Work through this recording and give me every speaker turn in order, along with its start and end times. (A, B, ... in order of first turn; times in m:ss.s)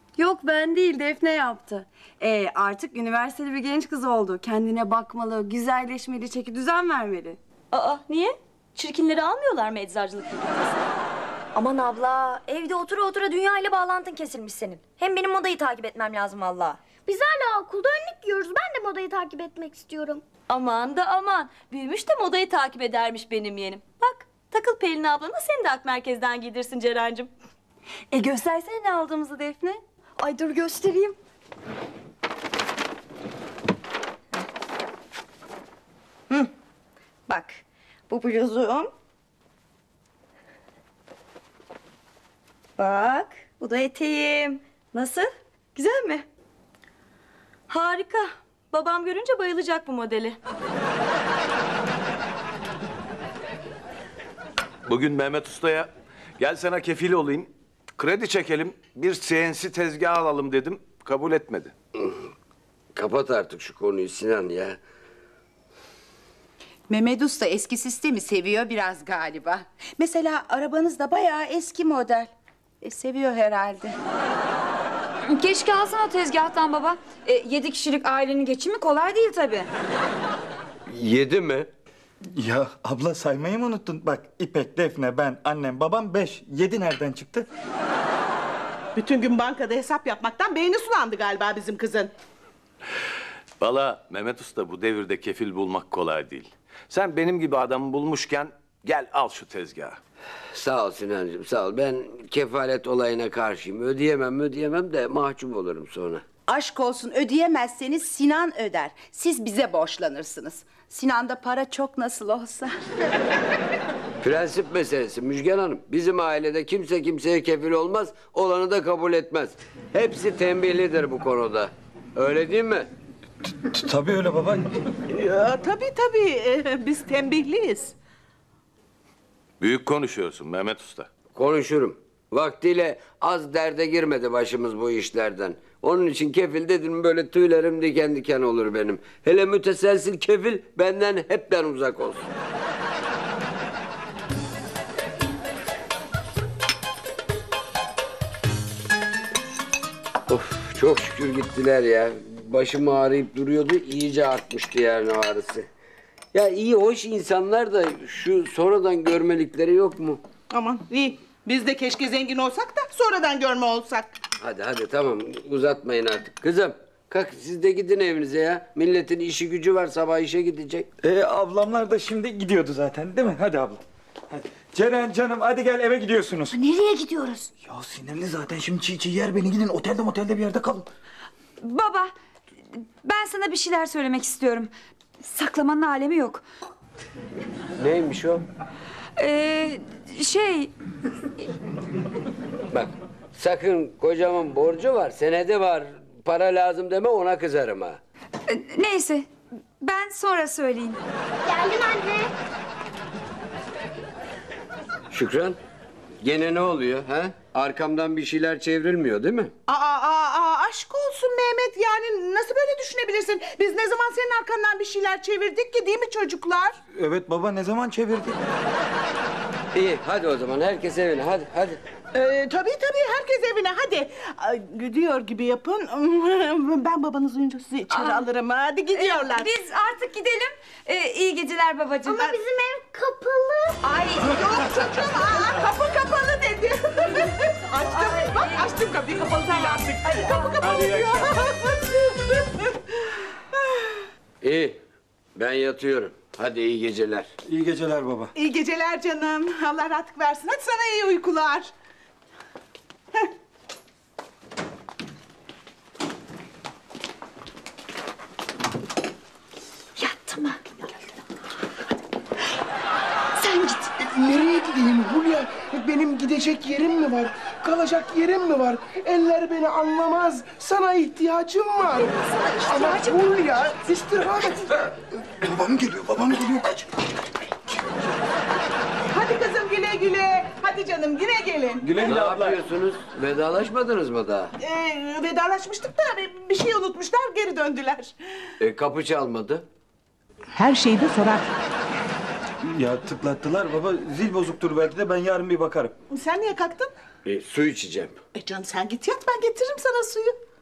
0:00.2-0:07.4 A
0:07.7-0:10.9 B
0:11.5-0:16.8 C
0:17.0-0:20.2 D
0:20.5-0:27.3 B
0:30.2-0:31.1 C
0:37.3-0:38.9 C
0:42.8-0:46.2 C
0:47.7-0:50.4 B
0:54.8-1:01.7 E
1:02.9-1:04.8 F
1:06.9-1:12.3 G
1:12.8-1:13.9 G
1:15.3-1:19.7 H
1:20.9-1:21.7 F
1:22.4-1:27.5 I
1:29.0-1:32.1 J
1:33.6-1:40.0 E
1:40.5-1:46.2 F
1:46.5-1:52.7 G
1:54.2-2:02.9 F
2:03.6-2:04.7 I
2:05.1-2:07.9 J
2:09.6-2:11.1 E
2:11.3-2:22.3 F
2:30.3-2:35.7 F
2:36.3-2:40.2 F
2:40.5-2:44.1 J
2:44.4-2:50.9 F
2:51.0-2:56.6 I
2:56.7-2:57.4 H
2:57.6-3:00.9 I
3:01.6-3:02.1 H
3:03.0-3:04.7 H
3:05.2-3:06.4 H
3:07.8-3:08.4 F
3:09.2-3:10.7 H
3:12.7-3:18.0 F
3:18.5-3:19.3 H
3:19.8-3:21.0 H
3:21.4-3:22.3 D
3:25.1-3:25.6 F
3:26.2-3:29.5 F
3:29.7-3:36.8 J
3:36.9-3:38.4 I
3:39.7-3:41.8 F
3:42.1-3:49.5 J
3:47.9-3:48.2 H
3:48.9-3:52.3 H
3:52.1-3:52.4 J
3:52.1-3:53.8 D
3:53.8-3:54.4 H
3:54.2-4:02.7 J
3:57.9-4:00.6 H
4:00.6-4:01.2 I
4:04.4-4:04.8 F
4:05.4-4:07.3 F
4:07.4-4:08.3 I
4:08.4-4:11.7 J
4:20.0-4:20.7 H
4:23.5-4:23.8 H
4:24.0-4:34.7 K
4:31.9-4:33.0 J
4:35.3-4:37.0 I
4:39.1-4:41.8 J
4:41.8-4:42.6 E
4:42.0-4:44.5 F
4:44.6-4:48.1 J
4:48.6-4:49.6 F
4:50.5-4:51.5 J
4:52.6-4:55.9 I
4:56.1-4:56.9 J
4:57.2-4:58.2 F
4:58.3-5:00.4 J